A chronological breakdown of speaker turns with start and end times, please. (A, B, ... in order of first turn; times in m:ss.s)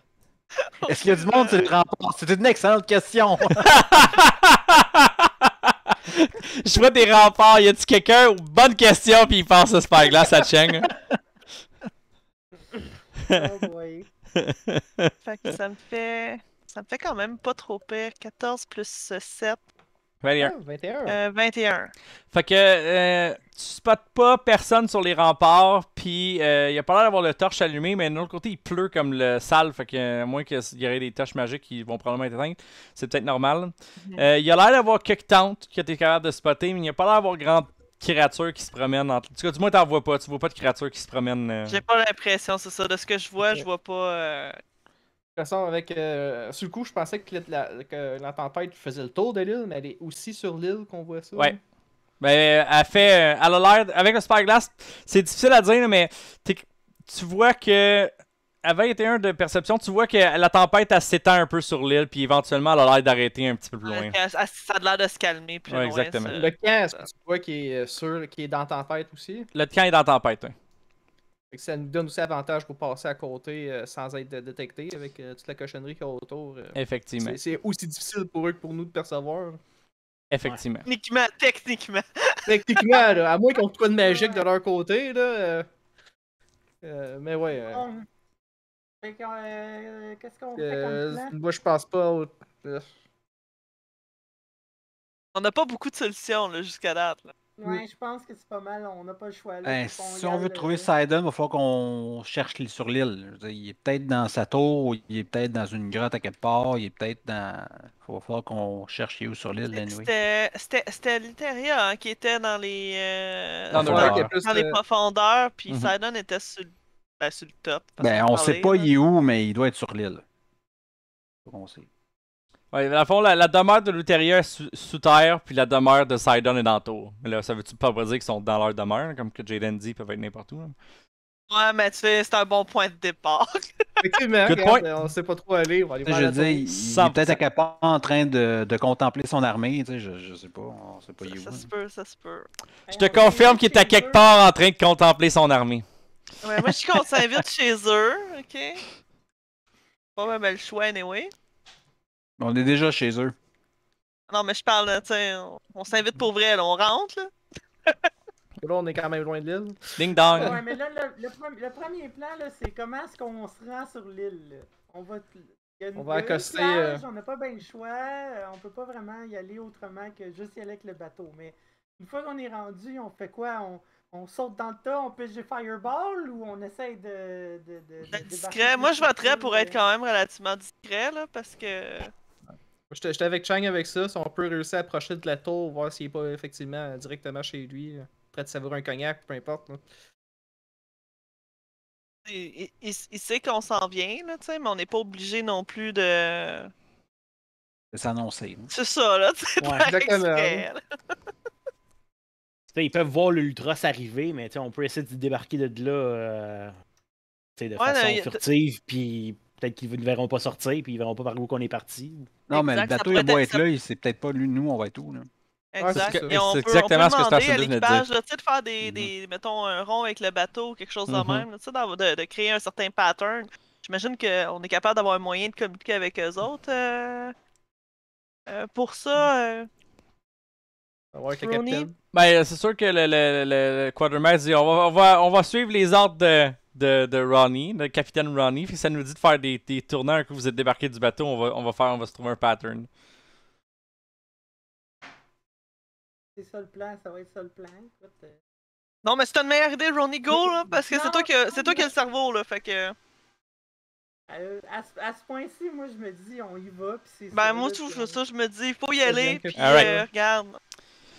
0:00.6-0:01.7 A
0:00.8-0:04.0 B
0:03.7-0:10.9 C
0:12.7-0:14.1 D
0:14.4-0:15.1 C
0:15.2-0:19.6 A
0:20.2-0:20.5 C
0:20.4-0:21.2 E
0:21.0-0:21.9 A
0:22.3-0:41.8 C
0:41.7-0:44.6 A
0:45.4-0:51.6 E
0:52.2-1:04.2 C
1:03.8-1:07.0 A
1:05.7-1:06.3 C
1:06.3-1:09.5 E
1:09.5-1:10.5 C
1:11.5-1:19.6 E
1:16.7-1:17.4 C
1:20.3-1:20.9 C
1:20.8-1:23.0 A
1:22.5-1:25.7 E
1:24.0-1:24.5 D
1:26.8-1:27.9 E
1:27.6-1:28.1 D
1:29.0-1:31.4 D
1:30.6-1:32.9 E
1:35.3-1:37.3 A
1:37.6-1:40.9 D
1:39.6-1:50.1 B
1:49.7-1:58.9 A
1:53.7-1:54.3 C
1:53.8-1:54.3 B
1:53.8-1:54.8 E
1:58.0-2:00.2 B
2:01.4-2:01.9 B
2:02.7-2:10.7 C
2:11.5-2:13.7 A
2:14.0-2:16.6 E
2:14.4-2:14.9 C
2:16.0-2:21.7 B
2:16.8-2:17.4 C
2:21.2-2:22.5 A
2:22.9-2:24.3 D
2:22.9-2:25.8 C
2:26.4-2:28.8 A
2:30.2-2:31.3 A
2:32.4-2:33.4 B
2:34.3-2:37.3 A
2:38.6-2:40.6 E
2:40.0-2:40.6 C
2:40.3-2:59.8 D
2:46.0-2:47.0 E
2:58.1-3:02.1 A
3:02.9-3:09.8 E
3:12.2-3:16.7 A
3:17.9-3:18.7 B
3:18.7-3:20.8 A
3:19.6-3:19.9 F
3:19.9-3:20.6 E
3:22.7-3:26.7 F
3:27.6-3:32.4 F
3:27.8-3:28.4 A
3:32.5-3:33.6 A
3:32.5-3:35.3 B
3:35.7-3:47.3 A
3:35.8-3:36.4 E
3:35.9-3:38.0 C
3:38.8-3:39.1 B
3:41.1-3:41.4 C
3:48.5-3:49.7 A
3:51.1-3:51.9 E
3:51.4-3:51.9 D
3:52.1-4:02.9 C
4:06.4-4:08.4 D
4:09.0-4:12.9 A
4:10.7-4:11.9 D
4:14.3-4:18.2 D
4:17.3-4:20.6 A
4:19.0-4:19.9 E
4:19.6-4:20.0 C